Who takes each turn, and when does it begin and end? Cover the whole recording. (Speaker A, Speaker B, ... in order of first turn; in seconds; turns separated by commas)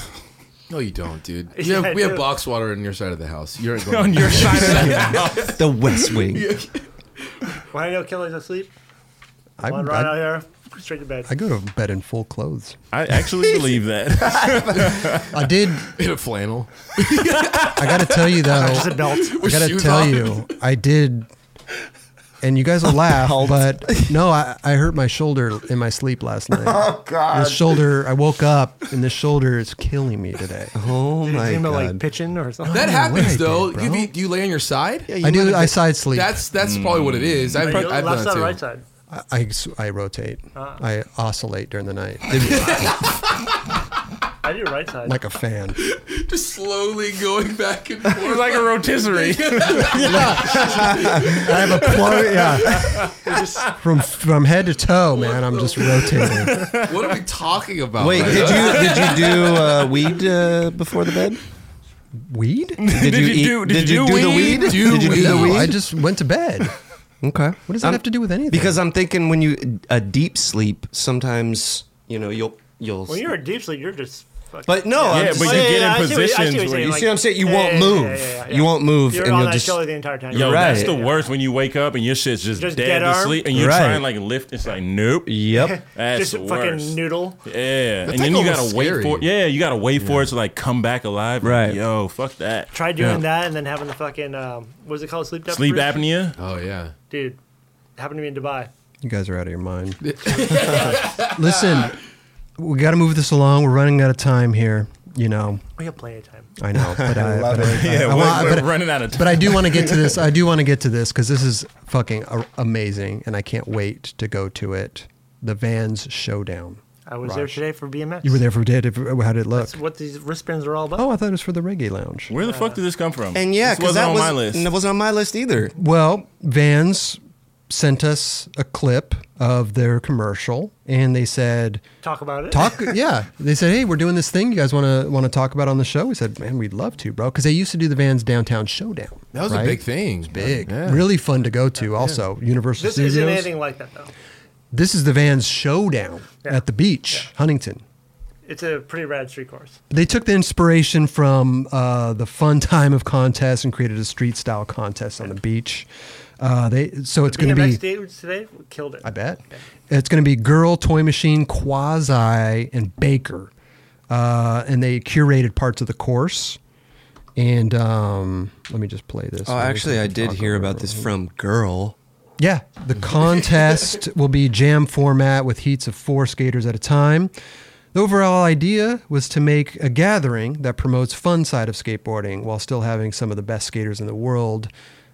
Speaker A: 0.7-7.6, Speaker B: 1.6-2.3, Speaker C: 3.9-5.6, Speaker D: 4.5-6.5, Speaker B: 7.7-8.7, Speaker E: 9.6-10.3, Speaker B: 9.6-11.3, Speaker E: 11.3-12.8, Speaker C: 12.9-15.4, Speaker D: 13.4-15.0, Speaker E: 15.3-15.9, Speaker A: 15.9-20.5, Speaker E: 17.6-21.3, Speaker B: 18.5-19.4, Speaker E: 22.4-30.8, Speaker D: 23.0-24.2, Speaker D: 26.5-27.8, Speaker D: 30.8-32.0, Speaker B: 31.2-33.0, Speaker E: 32.6-34.1, Speaker A: 32.7-38.6, Speaker E: 35.2-36.4, Speaker C: 36.6-37.8, Speaker B: 37.6-38.9, Speaker E: 39.1-43.0, Speaker B: 40.5-40.8, Speaker D: 42.3-42.9, Speaker A: 42.5-43.2, Speaker B: 44.4-45.2, Speaker E: 45.0-45.8, Speaker A: 45.8-53.6, Speaker C: 48.1-50.7, Speaker E: 50.0-53.1, Speaker D: 50.6-51.4, Speaker C: 52.5-53.7, Speaker E: 53.8-56.7, Speaker A: 55.3-60.0, Speaker C: 56.2-57.0, Speaker D: 58.0-61.4, Speaker E: 62.2-62.9, Speaker C: 62.8-65.3, Speaker D: 62.9-65.8, Speaker A: 64.1-65.7, Speaker E: 65.2-66.7, Speaker D: 67.2-73.3, Speaker E: 67.7-68.8, Speaker B: 73.1-81.3, Speaker D: 74.7-75.9, Speaker C: 75.1-77.0, Speaker D: 76.8-81.0, Speaker C: 80.3-92.7, Speaker B: 82.6-83.5, Speaker D: 83.5-84.1, Speaker D: 85.2-85.8, Speaker B: 85.5-87.4, Speaker A: 88.1-89.3, Speaker A: 90.0-90.3, Speaker D: 91.4-91.8, Speaker B: 92.7-96.1, Speaker D: 93.0-93.2, Speaker C: 95.5-96.4, Speaker A: 96.4-96.9, Speaker B: 97.1-97.4, Speaker B: 98.0-98.7, Speaker E: 99.0-102.0, Speaker A: 100.0-101.9, Speaker E: 102.6-105.6, Speaker B: 105.8-106.5, Speaker E: 106.6-117.6, Speaker D: 106.8-108.7, Speaker C: 107.6-110.1, Speaker B: 117.1-118.4, Speaker E: 118.2-119.8, Speaker B: 119.6-121.1, Speaker E: 121.0-122.3, Speaker C: 122.3-124.7, Speaker B: 122.4-122.8, Speaker D: 123.3-125.8, Speaker E: 125.8-131.8, Speaker B: 132.0-132.9, Speaker E: 132.5-143.5, Speaker A: 139.3-141.1, Speaker B: 142.8-144.1, Speaker E: 144.7-147.8, Speaker B: 146.4-147.3, Speaker B: 148.4-149.8, Speaker E: 149.9-155.9, Speaker E: 156.4-157.8, Speaker B: 157.3-159.6, Speaker E: 159.0-163.5, Speaker E: 164.1-166.6, Speaker E: 167.4-171.1, Speaker D: 169.4-171.9, Speaker E: 172.4-177.3, Speaker E: 177.9-184.7